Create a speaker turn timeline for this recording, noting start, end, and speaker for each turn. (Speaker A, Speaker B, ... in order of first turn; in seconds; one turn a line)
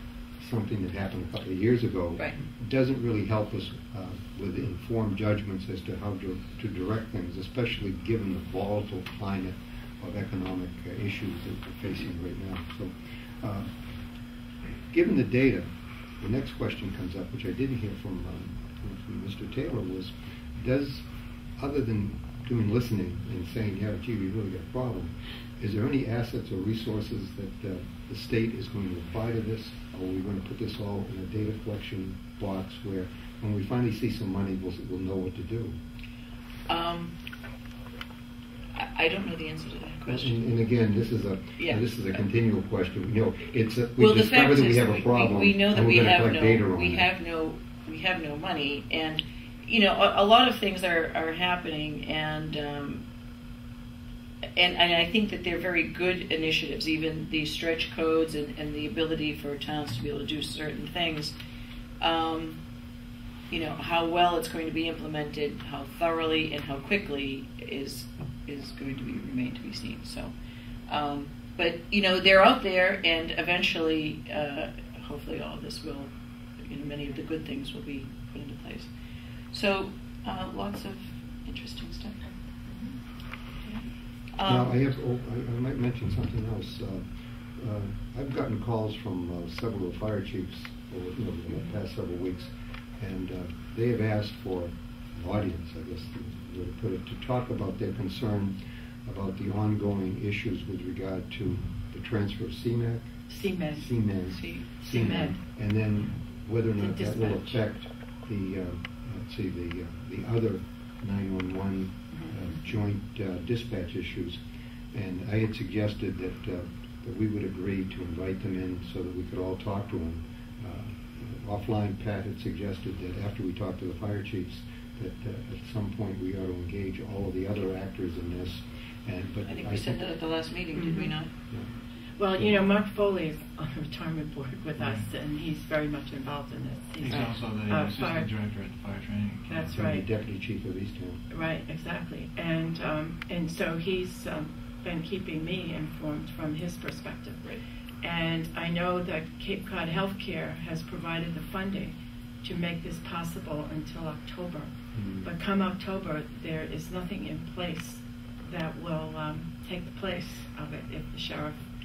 Speaker A: 0.4-13.7
Speaker A: 14.9-15.7
Speaker A: 16.2-21.1
Speaker A: 21.6-35.8
Speaker B: 36.7-37.1
Speaker B: 38.8-40.4
Speaker A: 40.1-47.1
Speaker B: 41.6-41.8
Speaker B: 44.0-53.0
Speaker B: 54.6-61.4
Speaker B: 62.0-62.6
Speaker B: 63.5-70.3
Speaker B: 70.9-76.1
Speaker B: 76.7-78.9
Speaker B: 79.5-82.2
Speaker B: 84.4-84.7
Speaker A: 84.4-87.0
Speaker A: 87.6-103.1
Speaker C: 103.3-103.9
Speaker A: 103.7-114.4
Speaker B: 104.3-104.7
Speaker C: 104.8-105.4
Speaker C: 106.8-107.6
Speaker A: 114.9-130.1
Speaker B: 129.4-131.3
Speaker C: 130.8-131.1
Speaker C: 132.2-138.3
Speaker D: 134.8-135.1
Speaker D: 137.0-139.8
Speaker C: 139.5-140.1
Speaker A: 139.7-141.2
Speaker C: 141.3-154.7
Speaker A: 154.9-155.3
Speaker C: 155.2-161.6